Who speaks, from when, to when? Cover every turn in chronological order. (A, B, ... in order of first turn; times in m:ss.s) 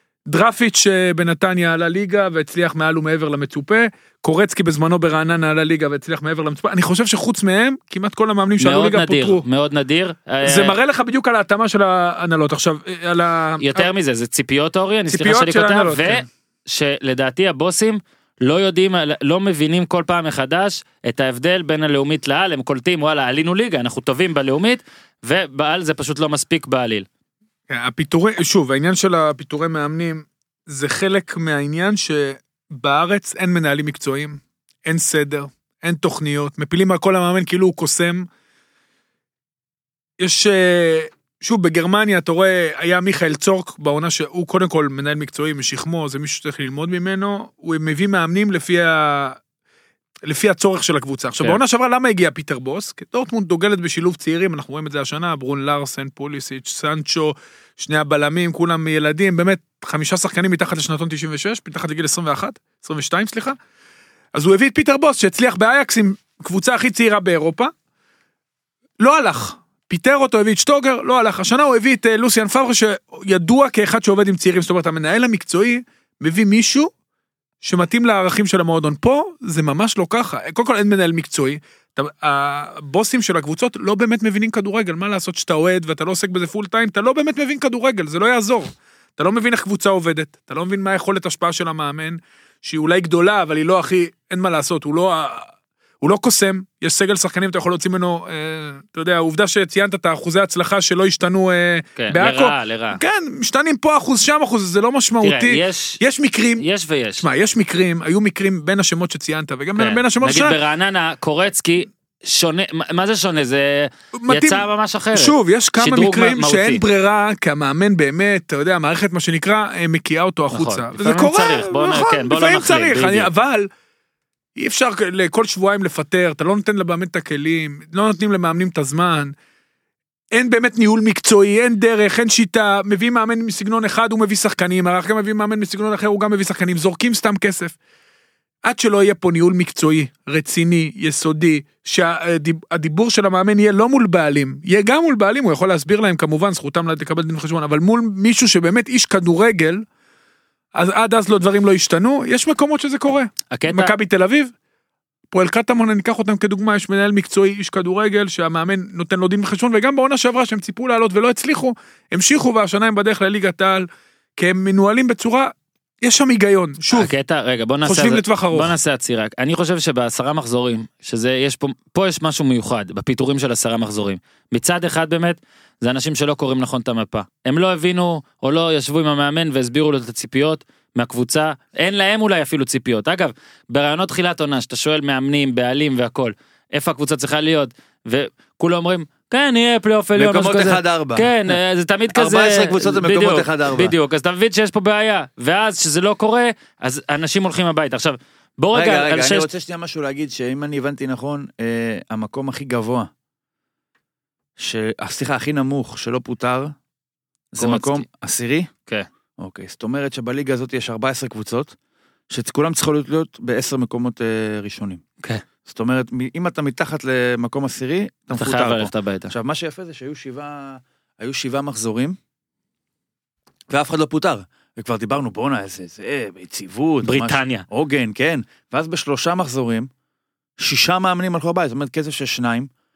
0:00.2-0:09.4 A
0:08.6-0:10.8 B
0:10.4-0:13.9 A
0:13.6-0:27.1 B
0:15.1-0:16.2 A
0:27.7-0:38.3 A
0:40.2-0:49.4 A
0:50.2-1:03.6 A
1:04.3-1:07.7 A
1:09.0-1:16.9 A
1:17.6-1:35.5 A
1:36.0-1:46.6 A
1:42.0-1:43.0 B
1:45.2-1:46.0 B
1:46.6-1:47.2 B
1:47.2-1:50.6 A
1:49.8-1:56.8 B
1:54.1-2:03.7 A
2:00.5-2:03.3 B
2:04.6-2:09.3 A
2:10.3-2:17.8 A
2:18.6-2:29.8 A
2:30.7-2:34.5 A
2:33.5-2:33.9 B
2:35.3-2:47.1 A
2:46.9-3:19.5 B
2:47.8-2:48.8 A
3:10.2-3:11.6 C
3:12.1-3:13.9 C
3:18.7-3:23.1 C
3:24.6-3:26.7 C
3:27.5-3:28.7 C
3:27.6-3:28.0 B
3:29.4-3:31.7 C
3:32.3-3:35.0 C
3:35.6-3:42.2 C
3:38.3-3:39.3 B
3:43.7-3:49.9 C
3:47.0-3:47.6 B
3:50.6-3:52.7 C